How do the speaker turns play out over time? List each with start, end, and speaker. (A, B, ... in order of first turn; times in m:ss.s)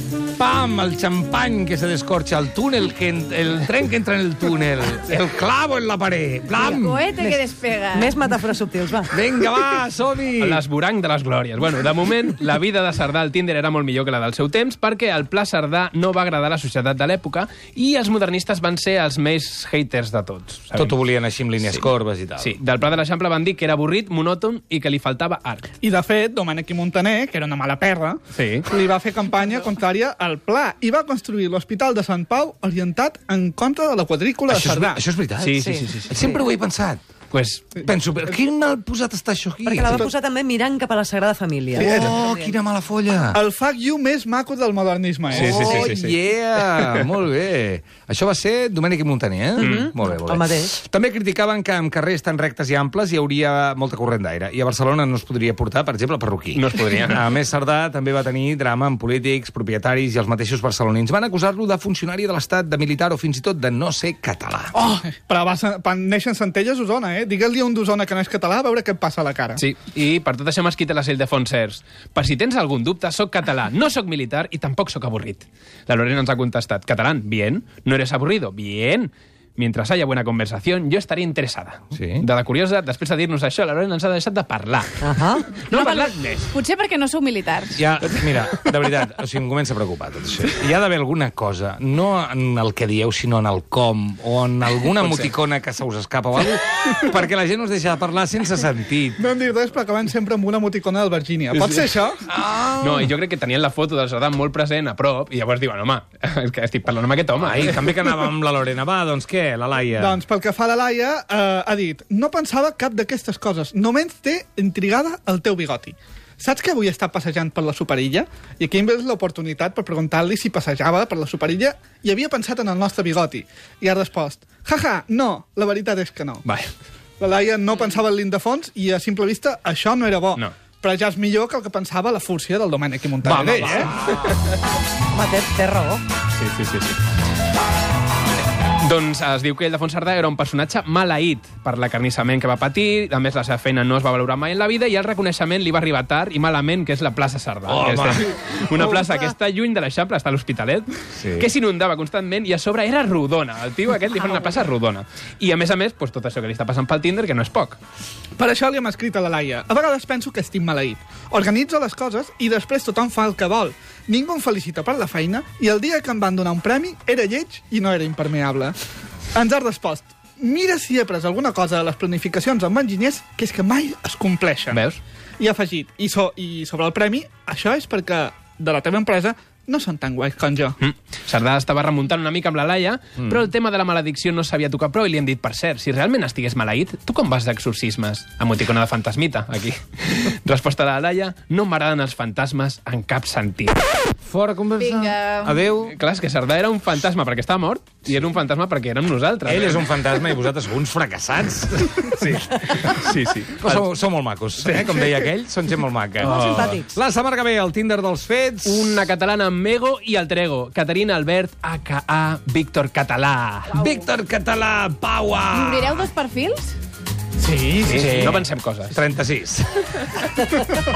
0:00.3-0:07.4 A
0:06.6-0:08.1 B
0:07.9-0:09.1 C
0:09.1-0:10.6 A
0:10.4-0:21.0 D
0:20.7-0:22.6 A
0:21.6-0:25.7 D
0:25.8-0:35.0 E
0:28.3-0:28.7 D
0:34.5-0:37.0 A
0:35.4-0:36.2 D
0:35.6-0:36.2 C
0:37.3-0:37.8 D
0:37.8-0:40.1 A
0:39.6-0:42.5 C
0:39.9-0:40.1 E
0:41.7-0:43.4 A
0:41.8-0:42.2 E
0:43.3-0:45.9 E
0:45.3-1:04.8 A
0:45.3-0:47.0 D
0:49.6-0:50.7 C
0:49.6-0:49.9 D
0:56.5-0:57.2 D
1:04.7-1:09.6 E
1:09.6-1:26.5 D
1:21.9-1:22.3 A
1:25.0-1:25.4 C
1:25.7-1:27.8 B
1:27.7-1:39.2 A
1:34.8-1:35.3 D
1:39.2-1:42.2 E
1:41.5-1:41.8 D
1:42.3-1:43.1 A
1:42.8-1:47.9 D
1:47.4-1:50.2 A
1:50.0-2:06.4 E
2:06.4-2:06.7 D
2:07.2-2:13.9 E
2:13.2-2:14.2 A
2:15.1-2:16.0 C
2:16.4-2:17.0 D
2:18.8-2:37.8 D
2:27.6-2:29.3 A
2:31.1-2:31.5 A
2:38.4-2:48.7 E
2:49.3-2:54.8 E
2:54.7-2:55.0 D
2:55.4-3:00.8 E
3:00.8-3:13.8 D
3:14.2-3:15.9 A
3:14.8-3:15.6 B
3:15.8-3:20.0 D
3:19.4-3:29.0 A
3:22.6-3:23.9 D
3:24.6-3:25.3 D
3:26.2-3:26.9 C
3:26.2-3:26.8 D
3:28.6-3:33.7 D
3:33.8-3:36.1 A
3:33.8-3:34.1 B
3:35.5-3:36.7 B
3:37.4-3:38.4 E
3:37.8-3:39.0 D
3:38.0-3:38.4 A
3:38.9-3:40.3 A